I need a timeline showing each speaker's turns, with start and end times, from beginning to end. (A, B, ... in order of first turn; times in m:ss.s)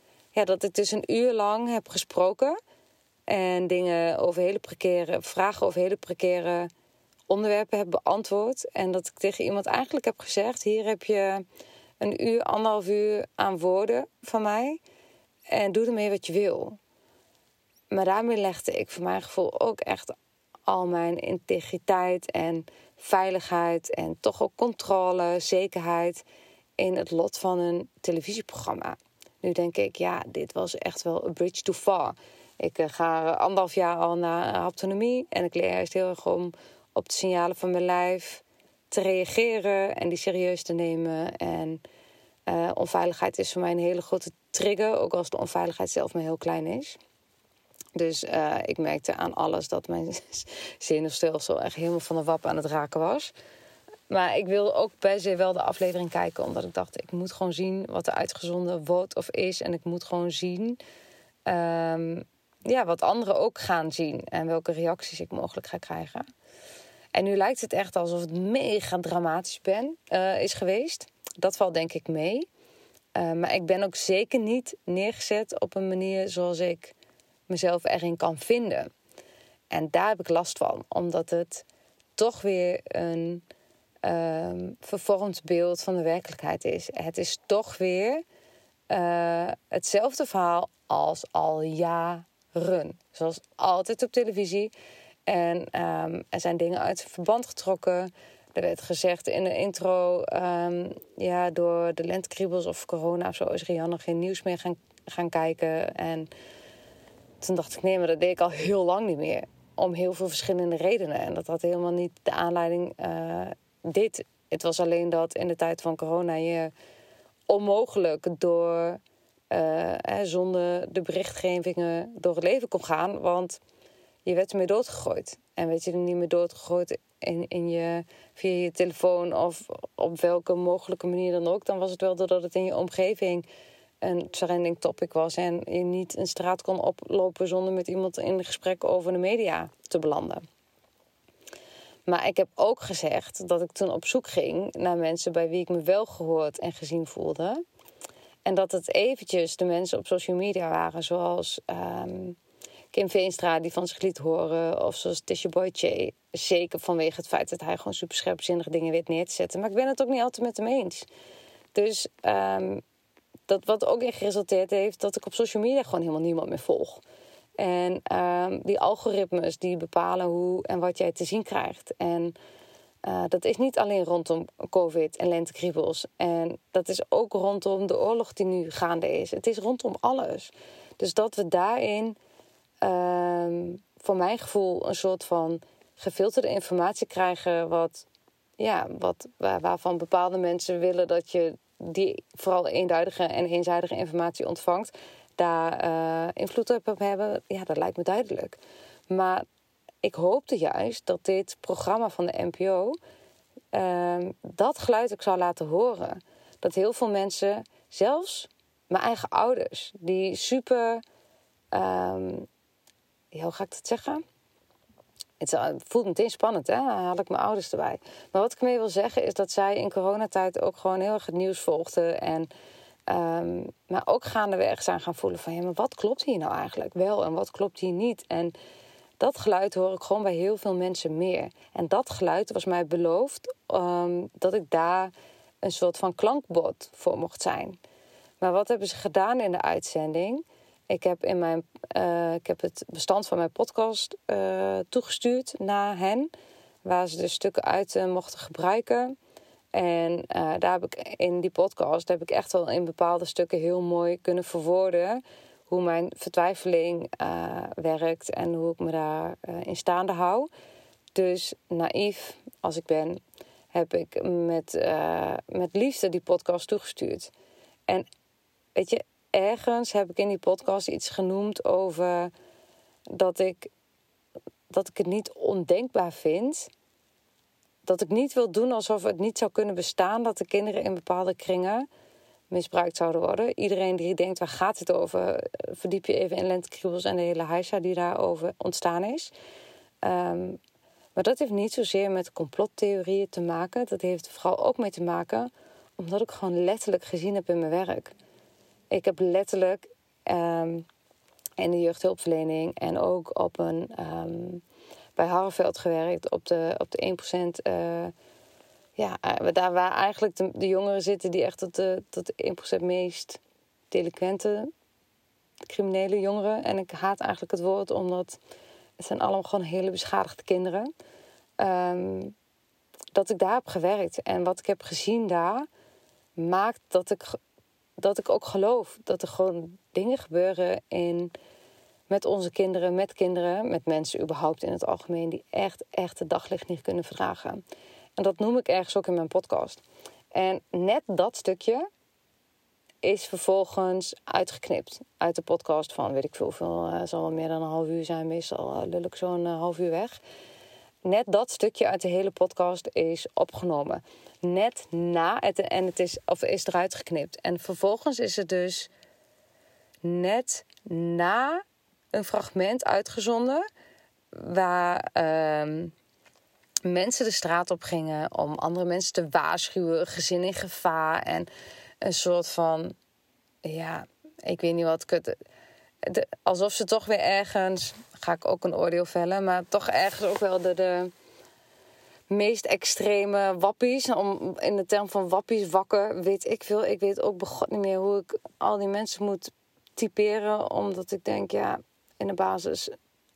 0:00.3-0:02.6 A
0:03.3-0:06.7 A
0:07.3-0:11.4 A
0:12.0-0:14.8 A
0:15.5-0:16.8 A
0:17.9-0:20.1 A
0:20.7-0:26.2 A
0:26.8-0:41.8 A
0:42.5-0:47.0 A
0:47.9-0:53.3 A
0:54.1-1:00.8 A
1:01.5-1:06.3 A
1:07.1-1:12.5 A
1:13.1-1:16.9 A
1:17.5-1:18.9 A
1:19.7-1:21.6 A
1:22.2-1:23.4 A
1:24.0-1:28.2 A
1:28.9-1:34.7 A
1:35.3-1:46.3 A
1:47.4-1:56.7 A
1:57.5-1:59.0 A
1:59.5-2:03.6 A
2:04.2-2:13.4 A
2:14.0-2:20.4 A
2:22.1-2:27.6 A
2:28.4-2:32.4 A
2:32.9-2:41.1 A
2:41.7-2:42.8 A
2:43.5-2:47.0 A
2:47.6-2:52.4 A
2:53.0-3:02.2 A
3:02.8-3:08.1 A
3:08.6-3:19.4 A
3:20.0-3:23.0 A
3:23.7-3:31.0 A
3:31.7-3:32.5 A
3:33.3-3:34.2 A
3:35.4-3:42.5 A
3:43.1-3:48.6 A
3:49.2-3:55.1 A
3:55.6-3:57.8 A
3:58.4-4:06.3 A
4:06.8-4:09.1 A
4:09.7-4:20.5 A
4:21.1-4:23.2 A
4:23.7-4:27.3 A
4:28.8-4:32.3 A
4:33.1-4:33.7 A
4:34.7-4:36.7 A
4:37.9-4:41.9 A
4:42.5-4:49.3 A
4:50.0-4:50.6 A
4:51.2-4:58.1 A
4:58.9-5:00.9 A
5:01.6-5:04.6 A
5:05.2-5:08.1 A
5:09.0-5:13.4 A
5:13.9-5:14.7 A
5:15.7-5:18.4 A
5:19.0-5:20.9 A
5:21.6-5:22.4 A
5:23.1-5:25.7 A
5:26.4-5:27.4 A
5:28.0-5:31.3 A
5:32.1-5:37.6 A
5:38.2-5:39.8 A
5:40.3-5:41.9 A
5:43.0-5:50.2 A
5:51.0-5:58.9 A
6:00.0-6:03.6 A
6:04.3-6:05.9 A
6:06.8-6:11.5 A
6:12.0-6:12.9 A
6:13.6-6:15.4 A
6:16.0-6:21.1 A
6:22.3-6:32.9 A